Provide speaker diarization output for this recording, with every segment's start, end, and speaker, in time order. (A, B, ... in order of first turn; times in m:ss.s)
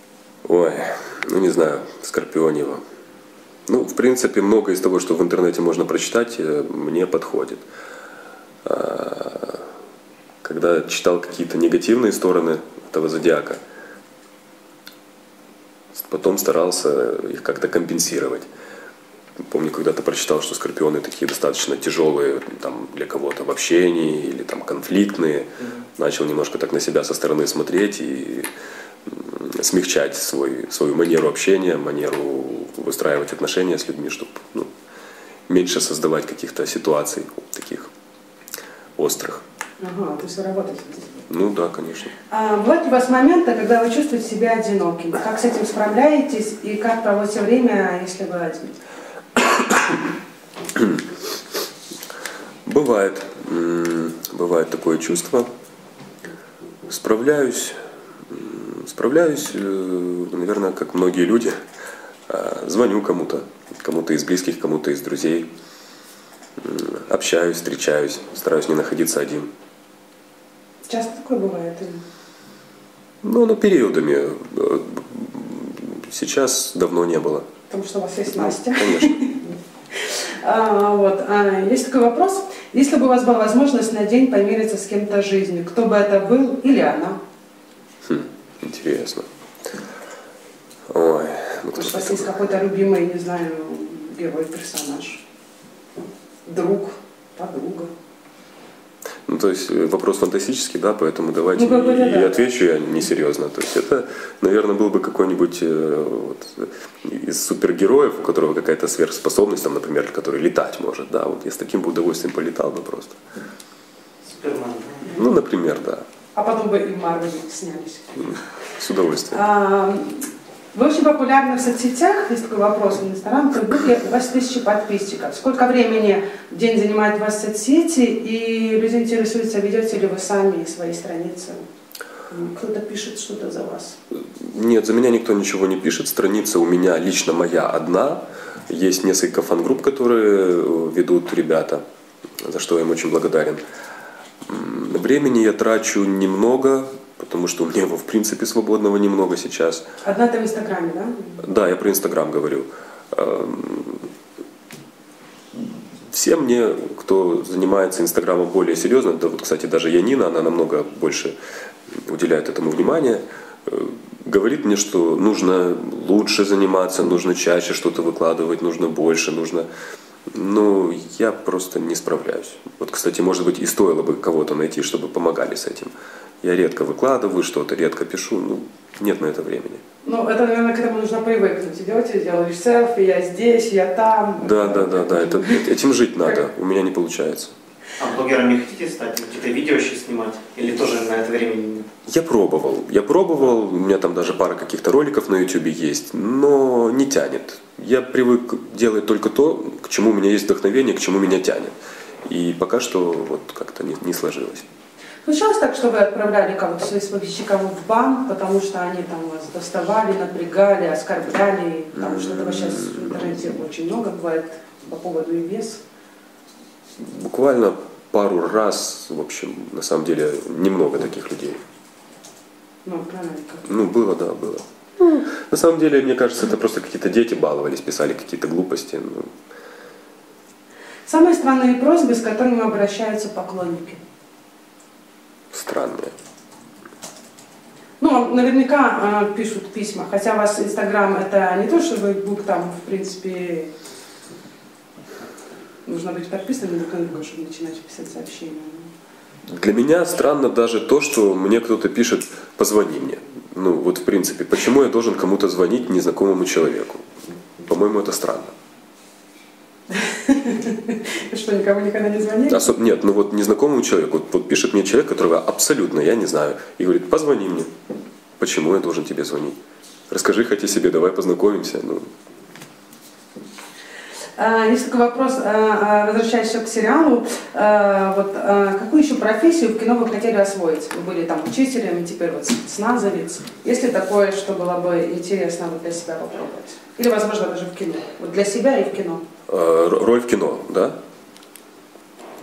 0:00.4-0:02.8 A
0:03.7-0:07.6 A
0:08.6-0:09.6 A
0:10.4-0:13.6 A
0:16.0-0:18.5 A
0:19.5-0:28.5 A
0:29.1-0:34.7 A
0:35.5-0:37.9 A
0:39.0-0:39.4 A
0:39.8-0:41.2 B
0:41.3-0:42.1 A
0:42.3-0:48.8 B
0:50.8-0:51.0 A
0:52.6-0:55.5 A
0:56.9-0:57.8 A
0:58.3-1:01.6 A
1:02.3-1:05.5 A
1:06.6-1:09.5 A
1:10.9-1:12.0 B
1:13.2-1:17.5 A
1:17.7-1:27.2 B
1:18.3-1:19.2 A
1:28.0-1:29.3 A
1:30.9-1:32.3 A
1:31.7-1:35.2 B
1:36.5-1:37.9 B
1:39.3-1:53.2 A
1:41.6-1:42.5 B
1:54.2-1:55.1 C
1:55.1-1:56.0 A
1:56.4-1:58.5 B
1:58.2-1:59.4 A
1:59.3-2:11.6 B
2:12.3-2:14.0 B
2:14.2-2:21.8 A
2:22.4-2:23.6 A
2:24.5-2:29.8 A
2:30.0-2:31.4 B
2:31.4-2:34.1 A
2:36.1-2:41.4 A
2:42.1-2:49.7 A
2:50.3-2:59.8 A
3:00.0-3:05.7 B
3:04.4-3:07.5 A
3:08.0-3:11.9 C
3:12.1-3:21.7 A
3:22.3-3:24.7 A
3:25.2-3:35.8 B
3:32.0-3:33.2 A
3:37.0-3:41.6 A
3:42.8-3:43.7 B
3:43.6-3:49.3 A
3:51.1-3:54.0 B
3:55.5-3:56.1 A
3:58.0-4:03.7 B
4:05.8-4:08.9 B
4:09.5-4:17.0 A
4:17.7-4:18.5 A
4:19.9-4:22.7 B
4:22.5-4:27.7 A
4:28.4-4:29.6 A
4:30.1-4:32.1 A
4:34.4-4:49.2 B
4:49.5-4:51.0 A